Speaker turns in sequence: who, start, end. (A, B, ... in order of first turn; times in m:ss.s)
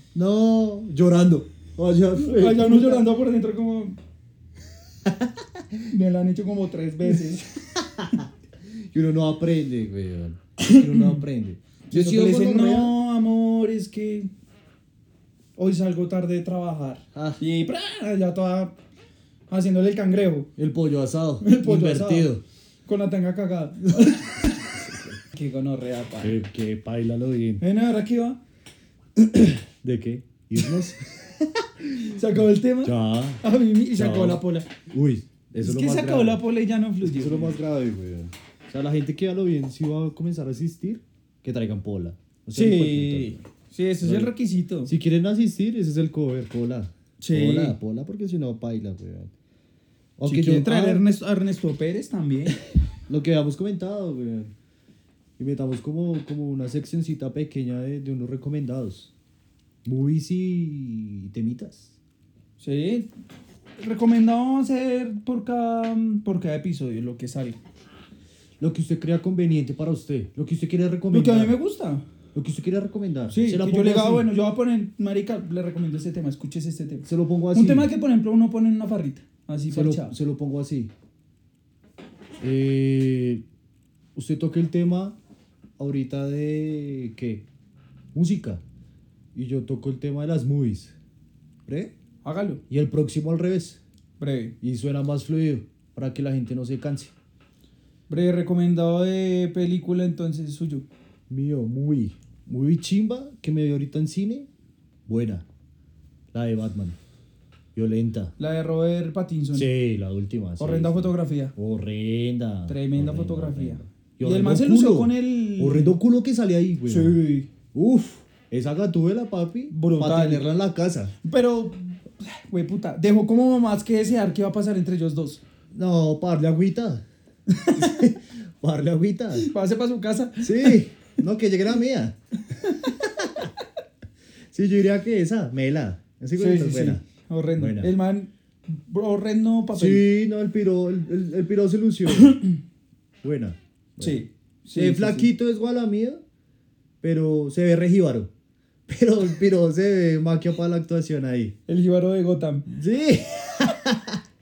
0:00.1-0:03.0 A
0:02.2-0:04.0 B
0:05.9-0:07.4 B
0:08.0-0:08.2 A
0:08.9-0:13.0 A
0:10.6-0:11.2 B
0:11.9-0:14.3 B
0:15.6-0:18.7 B
0:17.1-0:17.4 A
0:19.5-0:20.5 B
0:20.6-0:22.4 A
0:21.4-0:22.3 B
0:22.8-0:24.6 B
0:24.0-0:25.2 A
0:25.3-0:26.4 B
0:26.2-0:27.6 A
0:27.6-0:28.4 B
0:29.2-0:31.6 A
0:32.0-0:34.7 B
0:32.8-0:33.4 A
0:33.9-0:36.4 A
0:35.6-0:37.6 B
0:37.0-0:43.4 A
0:42.5-0:44.9 B
0:44.0-0:44.3 A
0:44.8-0:49.3 A
0:47.2-0:47.8 B
0:50.2-0:51.0 A
0:50.2-0:52.6 B
0:53.1-0:54.5 A
0:55.4-0:59.1 A
0:59.8-1:01.9 A
1:02.6-1:03.1 B
1:03.8-1:07.6 B
1:08.6-1:11.5 A
1:11.1-1:12.0 B
1:12.3-1:14.3 A
1:13.3-1:20.1 B
1:17.0-1:17.9 A
1:19.7-1:20.9 A
1:22.4-1:23.4 A
1:24.1-1:25.2 A
1:25.8-1:27.4 A
1:28.1-1:28.6 A
1:29.3-1:30.9 A
1:31.6-1:31.9 A
1:32.2-1:32.6 B
1:32.7-1:33.8 A
1:34.2-1:34.5 B
1:34.6-1:37.1 A
1:38.1-1:40.8 B
1:41.3-1:44.5 A
1:45.1-1:45.4 A
1:46.3-1:47.0 A
1:47.7-1:48.3 A
1:48.4-1:49.7 B
1:49.5-1:57.2 A
1:50.6-1:51.5 B
1:52.7-1:56.0 B
1:56.9-1:57.5 B
1:57.7-2:01.1 A
1:59.7-2:00.5 B
2:01.2-2:05.4 B
2:05.7-2:07.0 A
2:07.5-2:07.9 B
2:07.7-2:09.5 A
2:09.3-2:10.8 B
2:10.4-2:12.1 A
2:12.8-2:13.5 A
2:14.5-2:17.0 A
2:16.4-2:20.0 B
2:17.6-2:17.9 A
2:19.7-2:22.4 A
2:23.2-2:24.2 A
2:24.0-2:25.3 B
2:24.7-2:26.2 A
2:27.0-2:28.3 A
2:28.9-2:31.6 A
2:31.7-2:32.7 B
2:32.7-2:34.2 A